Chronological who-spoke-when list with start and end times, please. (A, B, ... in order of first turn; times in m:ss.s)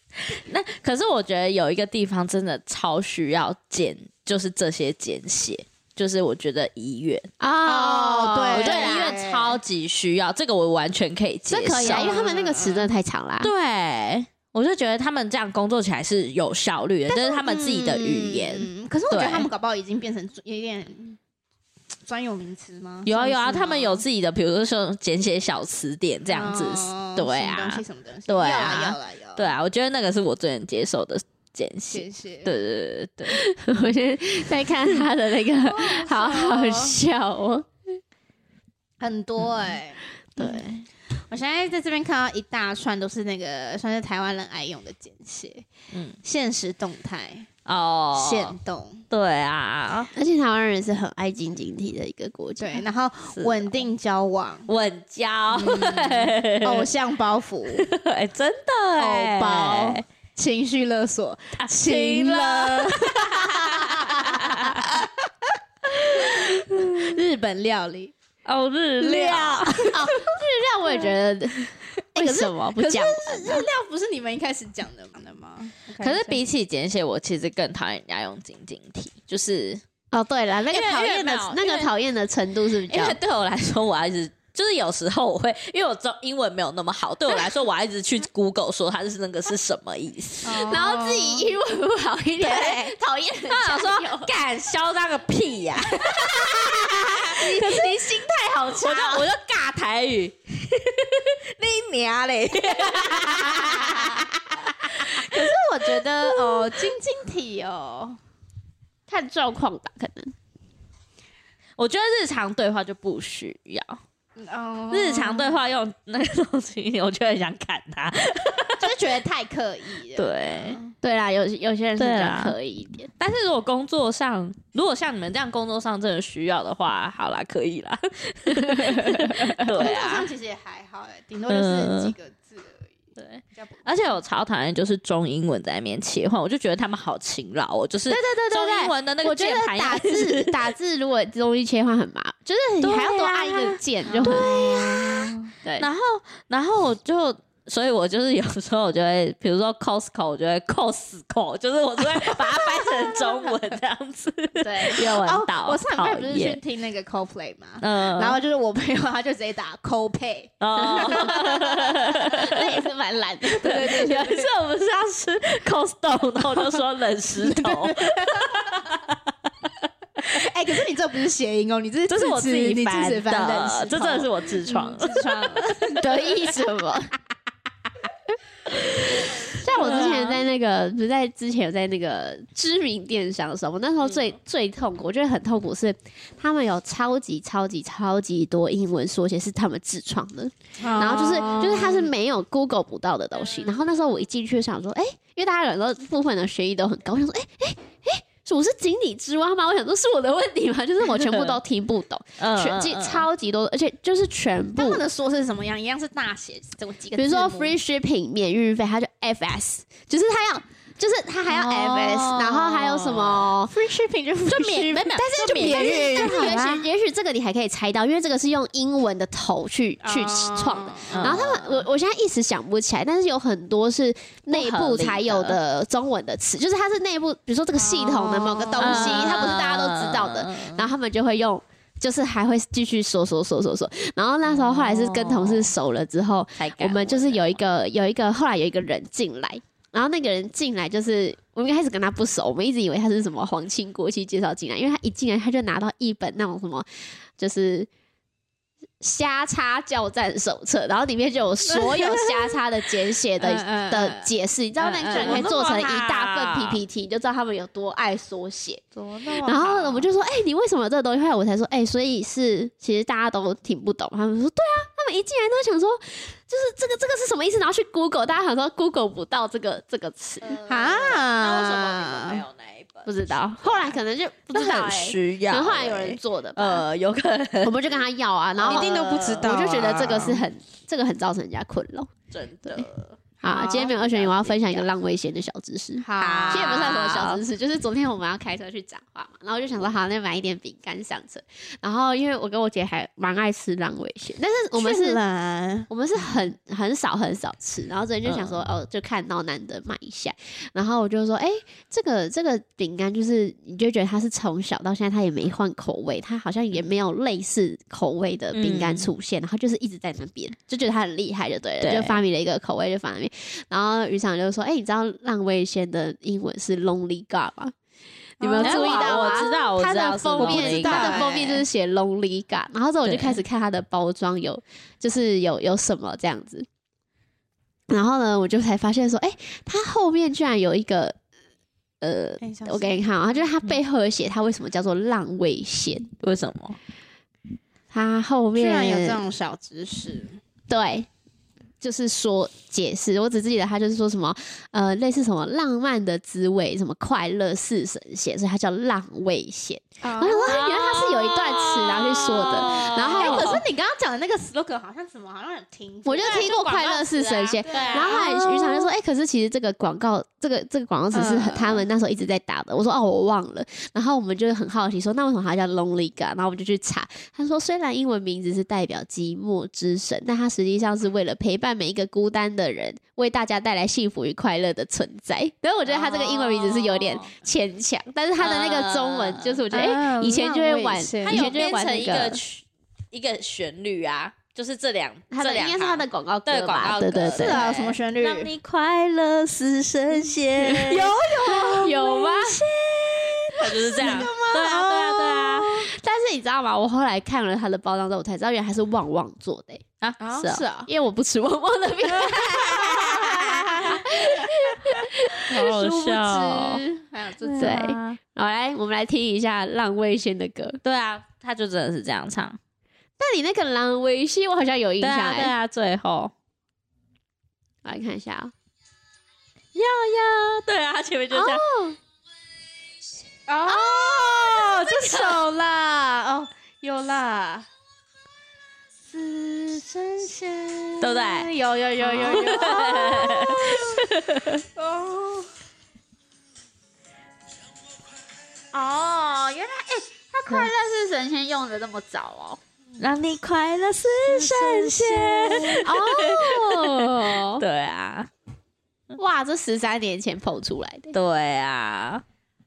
0:00.2-0:07.3 A
0:07.4-0:09.1 B
0:07.6-0:09.6 C
0:08.5-0:12.2 A
0:11.5-0:13.5 B
0:11.8-0:12.9 C
0:13.4-0:19.5 A
0:17.1-0:21.2 C
0:22.0-0:24.0 C
0:23.0-0:33.4 A
0:26.3-0:29.5 C
0:31.9-0:32.5 C
0:33.3-0:37.7 B
0:35.6-0:37.0 C
0:39.0-0:40.0 C
0:40.4-0:40.8 A
0:41.3-0:45.7 C
0:45.9-0:46.2 A
0:46.2-0:47.5 C
0:47.6-0:48.6 A
0:48.1-0:49.0 C
0:49.1-0:50.1 A
0:50.1-0:52.8 B
0:52.6-0:54.7 C
0:53.3-0:53.8 A
0:54.7-0:56.9 A
0:55.5-0:57.9 C
0:57.7-1:00.0 A
0:59.0-1:05.5 C
1:01.6-1:05.0 A
1:05.9-1:07.2 A
1:06.1-1:08.1 C
1:08.4-1:10.0 A
1:09.0-1:10.1 C
1:09.9-1:13.7 B
1:12.1-1:16.4 C
1:16.0-1:19.8 A
1:20.1-1:23.2 B
1:20.7-1:21.9 A
1:22.9-1:30.8 A
1:30.4-1:31.5 C
1:30.5-1:34.3 B
1:32.4-1:32.9 A
1:33.5-1:46.9 A
1:36.1-1:39.3 C
1:42.8-1:44.2 C
1:44.8-1:48.2 C
1:49.1-1:50.3 B
1:51.8-1:54.0 A
1:54.4-1:55.6 C
1:54.9-1:59.2 A
1:58.7-2:00.9 C
2:00.1-2:00.8 A
2:01.0-2:03.1 B
2:02.0-2:02.5 A
2:03.2-2:10.3 A
2:08.7-2:09.6 B
2:09.6-2:13.0 C
2:11.5-2:12.1 A
2:13.2-2:20.7 A
2:13.5-2:14.0 C
2:18.1-2:24.9 B
2:22.8-2:36.6 A
2:24.1-2:25.5 C
2:32.1-2:33.6 C
2:34.6-2:35.0 B
2:34.9-2:42.0 C
2:37.8-2:38.4 A
2:40.6-2:42.8 A
2:40.8-2:44.5 B
2:43.6-2:49.5 A
2:43.6-2:44.2 C
2:47.4-2:48.8 C
2:50.2-2:56.4 C
2:52.1-2:55.8 A
2:55.9-2:57.1 B
2:58.7-3:25.0 B
2:59.5-3:00.3 C
2:59.7-3:00.4 A
3:04.0-3:04.3 A
3:10.8-3:12.0 C
3:21.1-3:21.6 A
3:22.4-3:23.3 A
3:24.8-3:27.8 C
3:27.2-3:33.7 B
3:31.5-3:33.5 A
3:33.7-3:36.8 C
3:34.5-3:36.8 A
3:35.2-4:06.9 B
3:40.0-3:41.5 C
3:41.1-3:41.8 A
3:44.5-3:45.6 A
3:47.7-3:49.4 C
3:48.8-3:50.9 A
3:54.4-3:55.7 A
3:56.6-3:57.6 A
4:07.4-4:07.9 B
4:09.0-4:18.8 B
4:11.6-4:12.6 C
4:13.4-4:14.3 C
4:14.8-4:16.8 A
4:15.0-4:15.6 C
4:19.1-4:19.8 C
4:19.3-4:30.6 B
4:30.4-4:33.9 A
4:30.6-4:32.4 C
4:33.0-4:36.9 B
4:34.5-4:38.0 A
4:37.6-4:42.1 B
4:38.6-4:40.4 A
4:38.7-4:40.3 C
4:42.3-4:44.8 A
4:43.4-4:55.2 B
4:43.4-4:44.0 C
4:46.0-4:47.0 C
4:46.2-4:47.4 A
4:54.7-4:55.9 C
4:55.9-5:17.7 B
4:58.2-4:58.6 A
5:08.5-5:09.1 A
5:11.8-5:12.2 A
5:18.4-5:26.7 B
5:18.4-5:19.5 C
5:18.6-5:21.3 A
5:20.4-5:21.6 C
5:23.0-5:23.4 A
5:27.9-5:31.2 B
5:32.0-5:36.1 B
5:32.4-5:33.4 C
5:36.2-5:36.8 A
5:37.9-5:39.2 B
5:38.6-5:40.4 C
5:40.7-5:41.1 B
5:41.8-5:53.6 B
5:50.0-5:50.5 C
5:50.2-5:53.6 A
5:52.7-5:58.4 C
5:56.0-6:22.4 B
5:57.7-5:58.8 A
6:01.1-6:01.8 C
6:15.8-6:17.3 A
6:18.4-6:19.6 A
6:19.7-6:21.5 C
6:21.2-6:31.1 A
6:25.3-6:27.6 B
6:27.3-6:28.5 C
6:30.6-6:32.6 B
6:30.9-6:32.2 C
6:32.2-6:35.8 A
6:33.2-6:35.8 C
6:33.9-6:34.2 B
6:35.7-6:39.8 B
6:40.0-6:40.7 A
6:40.2-6:40.9 C
6:40.8-6:45.6 B
6:42.2-6:47.9 C
6:42.6-6:44.2 A
6:45.4-6:46.8 A
6:47.4-6:48.2 A
6:47.6-6:50.8 B
6:50.8-6:52.6 A
6:53.2-6:55.5 B
6:55.0-6:56.3 A
6:57.8-6:58.5 B
6:59.7-7:01.6 A
7:01.3-7:02.0 B
7:03.5-7:07.7 C
7:03.7-7:05.4 A
7:09.1-7:14.1 C
7:11.0-7:11.5 A
7:12.0-7:14.6 A
7:12.0-7:12.6 B
7:14.8-7:15.5 C
7:18.7-7:28.3 A
7:24.3-7:25.9 C
7:25.5-7:27.6 B
7:29.2-7:31.1 B
7:31.1-7:32.2 A